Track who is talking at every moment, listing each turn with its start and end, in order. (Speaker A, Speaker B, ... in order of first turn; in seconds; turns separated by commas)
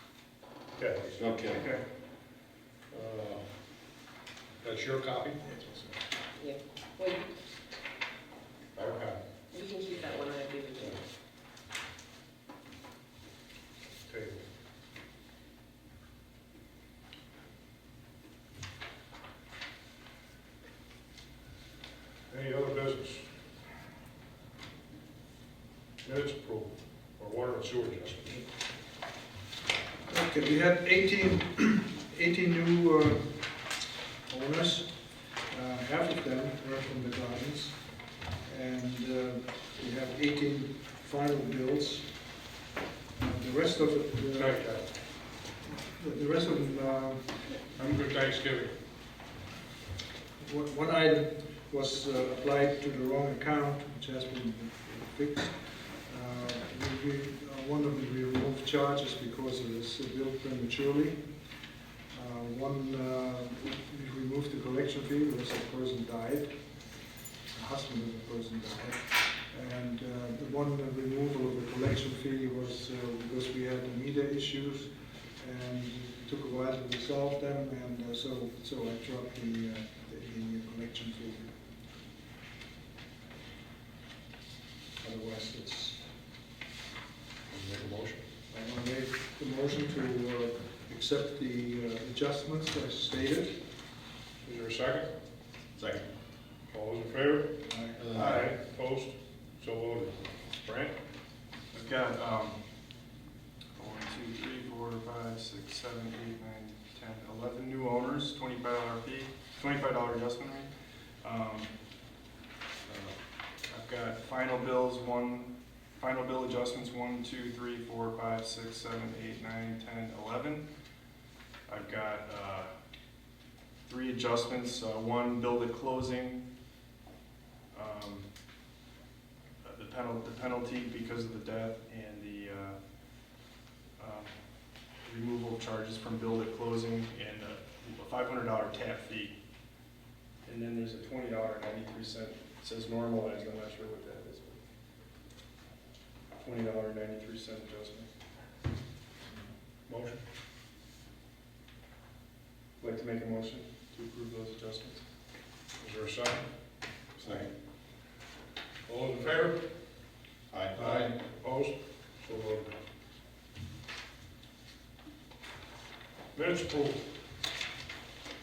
Speaker A: 0.8-1.3, Speaker B: 1.2-1.7, Speaker C: 1.5-1.8, Speaker A: 2.9-3.4, Speaker A: 4.6-5.4, Speaker D: 5.4-6.0, Speaker E: 6.4-7.3, Speaker A: 8.8-9.2, Speaker E: 9.5-11.0, Speaker A: 14.0-14.4, Speaker A: 22.3-23.3, Speaker A: 26.0-28.4, Speaker D: 30.1-33.7, Speaker D: 34.3-42.3, Speaker D: 43.2-44.8, Speaker A: 44.4-44.9, Speaker D: 45.6-47.8, Speaker A: 47.8-48.7, Speaker D: 50.4-61.3, Speaker D: 62.1-66.6, Speaker D: 67.5-81.5, Speaker D: 85.0-86.1, Speaker A: 87.5-88.2, Speaker D: 88.5-93.6, Speaker A: 94.4-95.1, Speaker B: 95.8-96.1, Speaker A: 96.7-97.6, Speaker D: 97.7-98.0, Speaker B: 98.0-98.5, Speaker A: 98.1-101.0, Speaker C: 101.7-102.6, Speaker C: 103.8-110.7, Speaker C: 111.2-111.7, Speaker C: 112.9-113.2, Speaker C: 113.7-120.7, Speaker C: 121.7-122.7, Speaker C: 123.9-126.4, Speaker C: 127.7-128.3, Speaker C: 129.6-132.8, Speaker C: 134.0-134.3, Speaker C: 135.0-139.3, Speaker C: 140.4-144.6, Speaker C: 146.4-148.1, Speaker A: 149.9-150.2, Speaker C: 152.8-155.0, Speaker A: 155.8-156.5, Speaker B: 157.2-157.5, Speaker A: 158.9-159.6, Speaker B: 160.5-161.1, Speaker A: 160.7-162.7, Speaker A: 166.3-167.0